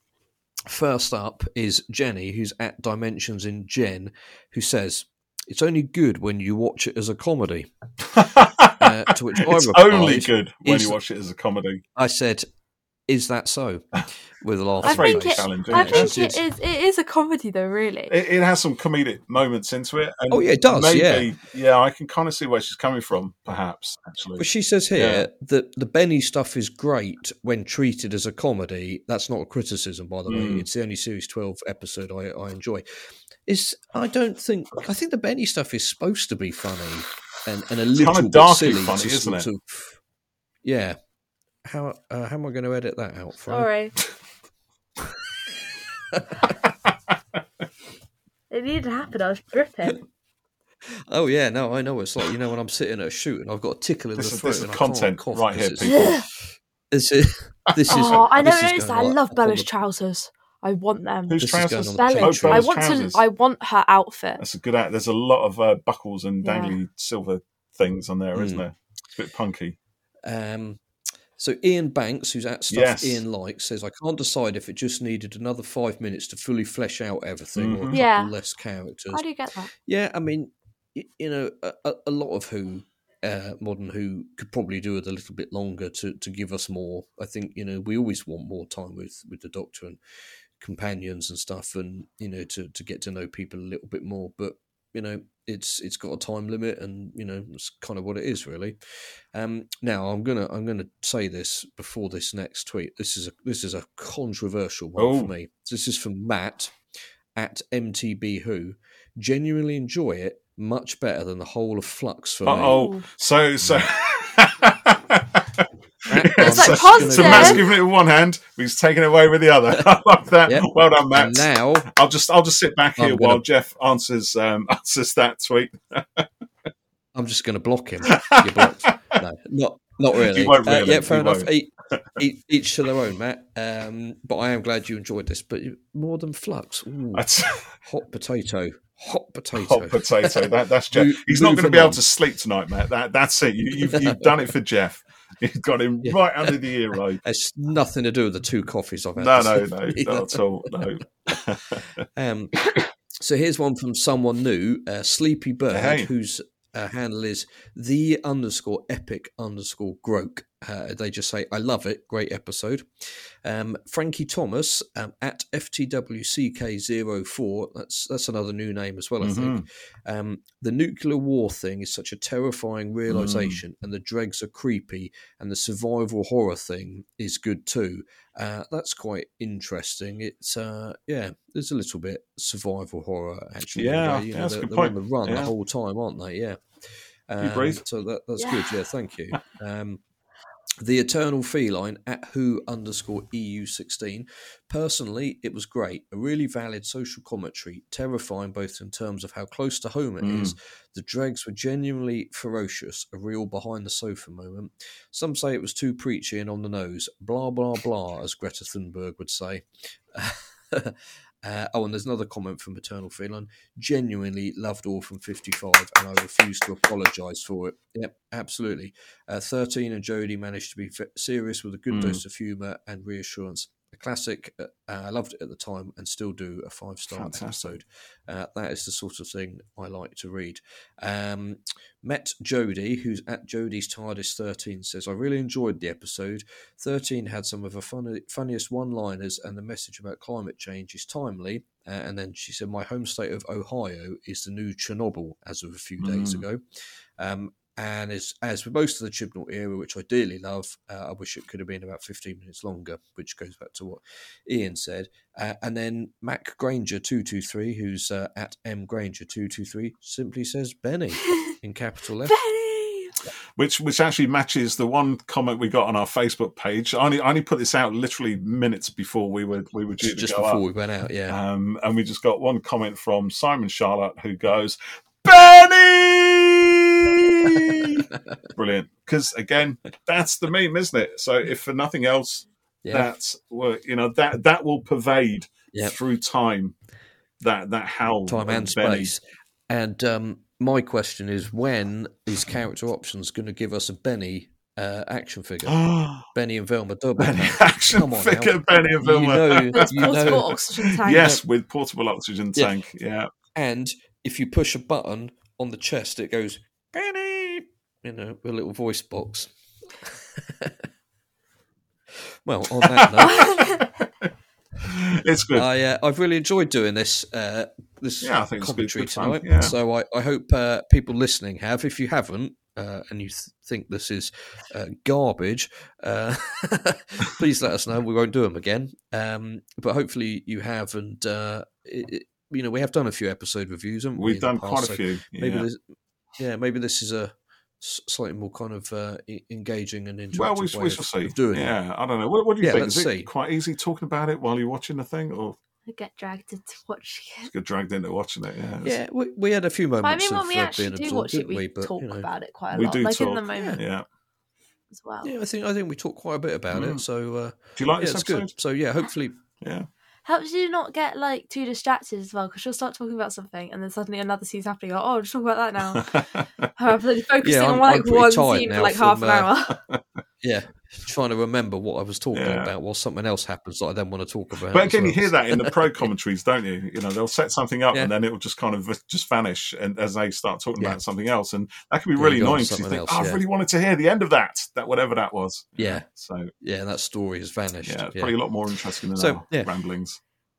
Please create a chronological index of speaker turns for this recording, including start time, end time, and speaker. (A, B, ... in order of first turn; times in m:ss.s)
0:00.7-0:07.7 A
0:08.0-0:11.8 B
0:08.8-0:11.0 A
0:12.0-0:12.5 A
0:13.1-0:13.8 A
0:14.4-0:16.4 A
0:14.8-0:16.4 B
0:14.8-0:18.1 C
0:18.1-0:25.3 B
0:20.3-0:21.3 A
0:24.4-0:32.8 A
0:30.3-0:30.7 B
0:33.5-0:40.0 A
0:37.9-0:39.5 B
0:40.6-0:41.0 A
0:41.7-0:43.7 A
0:43.5-0:44.0 C
0:46.1-0:46.6 A
0:48.5-0:50.0 C
0:51.1-0:56.2 A
0:54.2-0:56.3 B
0:55.9-0:56.2 C
0:56.9-0:59.7 A
0:57.8-0:58.2 B
0:57.9-1:04.4 C
1:01.3-1:03.2 B
1:01.4-1:02.7 A
1:04.4-1:09.8 B
1:06.4-1:06.8 C
1:08.4-1:08.6 A
1:10.3-1:10.8 A
1:11.4-1:19.2 A
1:12.7-1:13.2 B
1:17.6-1:18.0 B
1:17.9-1:18.3 C
1:19.1-1:19.7 C
1:19.8-1:30.0 A
1:30.6-1:38.8 A
1:39.3-1:46.8 A
1:45.0-1:45.3 B
1:47.4-1:52.8 A
1:52.4-2:06.3 B
1:52.6-1:53.1 C
1:56.1-1:57.7 A
1:56.4-1:57.7 C
2:00.5-2:01.9 A
2:03.0-2:03.4 A
2:07.2-2:17.3 A
2:08.1-2:09.2 B
2:10.1-2:12.2 B
2:17.1-2:17.7 B
2:17.8-2:22.0 A
2:19.5-2:27.2 B
2:23.8-2:24.3 A
2:26.0-2:26.6 A
2:27.2-2:30.9 A
2:29.2-2:32.0 B
2:32.2-3:06.6 A
2:35.7-2:36.1 B
2:49.2-2:49.7 B
2:53.1-2:53.6 B
3:03.8-3:05.5 B
3:07.3-3:10.0 A
3:07.4-3:07.8 B
3:10.8-4:06.6 A
3:20.2-3:20.6 B
3:41.9-3:42.2 B
3:47.1-3:47.8 B
4:06.0-4:06.5 B
4:07.2-4:22.4 A
4:21.2-4:21.5 C
4:22.2-4:23.2 C
4:23.6-4:30.6 B
4:30.0-4:31.4 A
4:31.3-4:46.8 B
4:37.6-4:37.9 A
4:42.8-4:43.1 A
4:45.7-4:46.0 A
4:47.4-4:49.1 B
4:48.3-5:00.5 A
4:55.7-4:56.3 B
4:57.2-5:03.3 B
4:59.7-5:01.4 C
5:03.6-5:09.5 A
5:10.1-5:10.8 A
5:12.4-5:13.5 A
5:12.7-5:15.7 B
5:13.2-5:13.8 C
5:15.6-5:35.8 A
5:18.2-5:19.8 B
5:34.2-5:35.7 B
5:36.4-5:41.8 A
5:40.3-5:45.6 B
5:42.6-5:43.3 A
5:45.9-5:47.5 C
5:47.4-5:49.0 B
5:48.8-5:52.3 A
5:50.0-5:53.8 C
5:52.7-5:54.1 B
5:53.5-5:53.8 A
5:54.9-5:55.3 C
5:55.2-5:59.4 A
5:56.7-5:57.0 B
5:57.8-5:58.5 B
5:59.6-5:59.9 B
6:00.2-6:06.2 C
6:05.8-6:06.7 B
6:06.8-6:09.8 C
6:07.4-6:09.5 A
6:09.7-6:10.0 B
6:10.4-6:16.1 A
6:12.3-6:12.7 B
6:14.7-6:26.5 B
6:22.2-6:23.4 A
6:25.8-6:26.0 A
6:26.6-6:28.3 A
6:27.8-6:30.2 B
6:29.2-6:29.7 A